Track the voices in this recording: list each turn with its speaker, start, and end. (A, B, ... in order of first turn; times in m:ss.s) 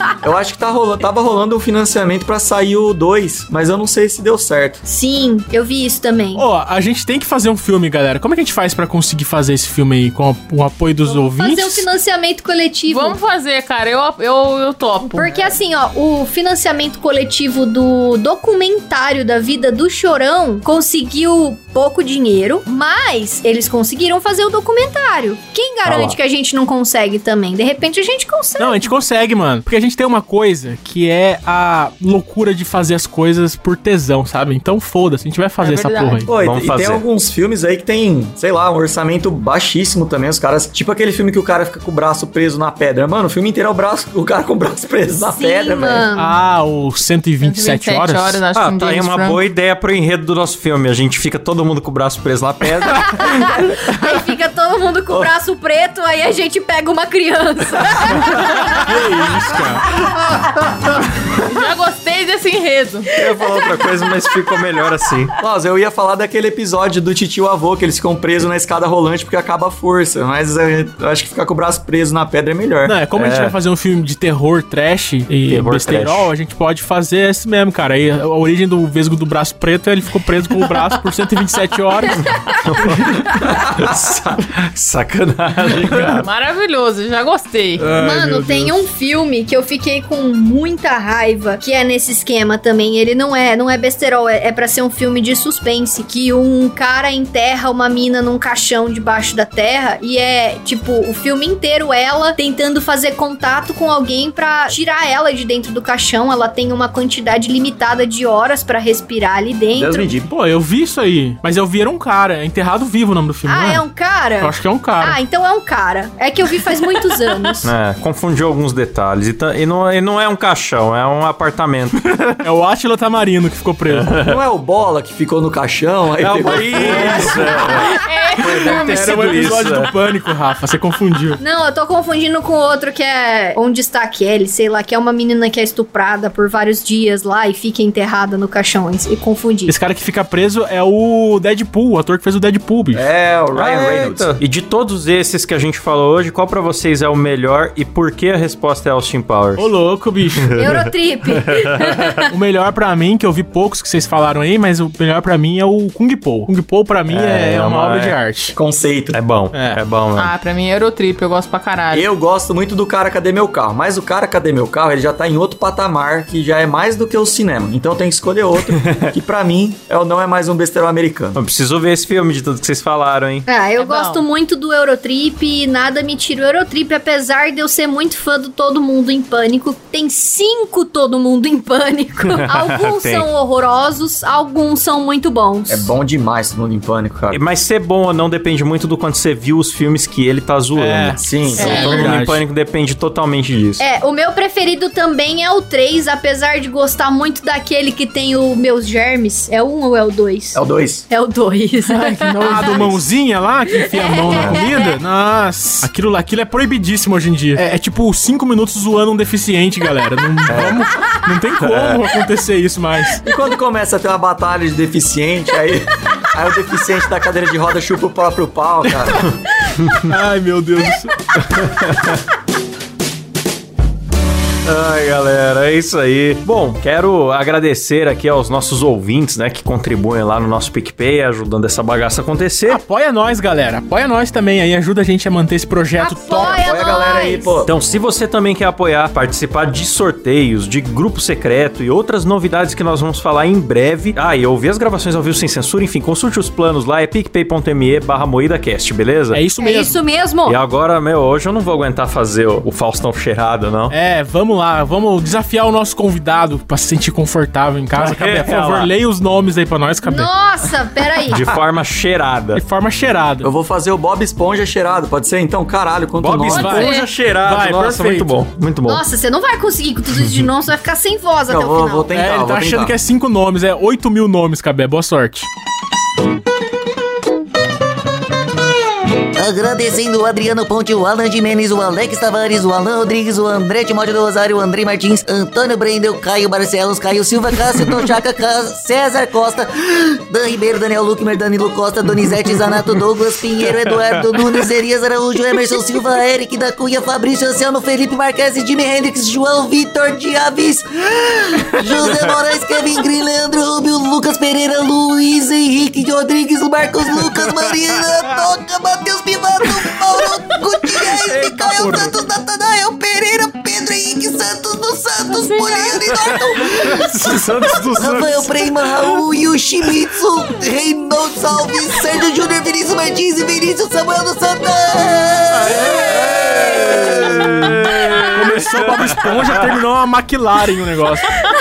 0:00.2-0:04.8 A
0:04.8-0:06.4 B
0:06.4-0:11.9 C
0:11.0-0:13.2 B
0:12.9-0:15.4 D
0:15.1-0:28.9 B
0:25.8-0:26.2 E
0:28.6-0:36.3 C
0:35.6-0:36.3 D
0:36.3-0:46.1 A
0:36.4-0:37.0 E
0:45.2-0:46.4 B
0:46.2-0:48.4 C
0:47.4-0:49.4 D
0:48.6-0:53.6 E
0:53.1-0:58.8 B
0:58.8-0:59.8 C
1:01.5-1:03.1 D
1:03.2-1:05.3 E
1:03.2-1:03.5 B
1:03.2-1:03.8 A
1:05.4-1:13.6 A
1:12.8-1:22.3 C
1:15.5-1:16.3 E
1:22.5-1:26.3 E
1:23.3-1:24.5 A
1:26.2-1:27.8 D
1:27.8-1:28.7 C
1:27.9-1:50.1 B
1:49.7-1:50.3 A
1:50.3-1:53.8 C
1:53.5-1:57.7 B
1:54.4-1:55.2 C
1:57.6-2:02.1 E
2:02.3-2:04.1 C
2:03.9-2:04.4 E
2:04.2-2:07.7 A
2:06.2-2:09.9 E
2:06.8-2:07.8 B
2:07.0-2:07.4 C
2:08.0-2:09.1 D
2:08.4-2:11.4 C
2:11.4-2:19.7 B
2:19.7-2:23.1 C
2:22.9-2:24.4 A
2:23.6-2:29.7 E
2:29.6-2:30.6 C
2:30.6-2:32.3 B
2:30.7-2:32.2 E
2:32.3-2:38.6 C
2:37.1-2:38.2 E
2:38.6-2:39.2 A
2:39.1-2:40.3 E
2:39.5-2:39.8 C
2:40.2-2:42.1 D
2:41.9-2:51.4 A
2:48.8-2:49.1 E
2:51.4-2:53.5 E
2:53.5-3:05.9 B
2:53.8-2:54.2 D
3:02.3-3:03.3 E
3:05.7-3:07.4 A
3:07.3-3:13.8 E
3:10.8-3:12.4 C
3:11.2-3:12.2 A
3:13.8-3:23.0 B
3:20.6-3:21.1 A
3:21.9-3:33.2 C
3:22.6-3:22.9 A
3:23.9-3:24.9 B
3:24.3-3:24.6 A
3:30.5-3:30.9 A
3:33.2-3:39.3 A
3:39.2-3:40.1 E
3:40.0-3:41.1 C
3:41.4-3:42.2 E
3:44.6-3:52.8 E
3:52.7-3:56.6 C
3:56.0-3:57.6 B
3:56.4-3:57.7 A
3:57.7-4:09.4 E
4:09.3-4:10.0 C
4:09.6-4:10.6 B
4:10.4-4:13.9 E
4:13.9-4:20.3 C
4:18.0-4:18.9 E
4:20.0-4:21.4 B
4:21.3-4:22.6 E
4:22.5-4:23.5 C
4:23.4-4:26.9 A
4:26.2-4:28.3 C
4:26.4-4:29.0 E
4:26.6-4:27.1 D
4:28.9-4:32.1 B
4:30.1-4:30.5 E
4:31.5-4:33.0 A
4:32.1-4:35.5 C
4:39.4-5:27.2 F
4:53.9-4:54.2 E
5:11.3-5:12.1 C
5:15.3-5:16.2 D
5:16.2-5:19.1 E
5:25.6-5:26.2 C
5:25.7-5:29.6 E
5:26.9-5:27.5 C
5:28.2-5:31.3 C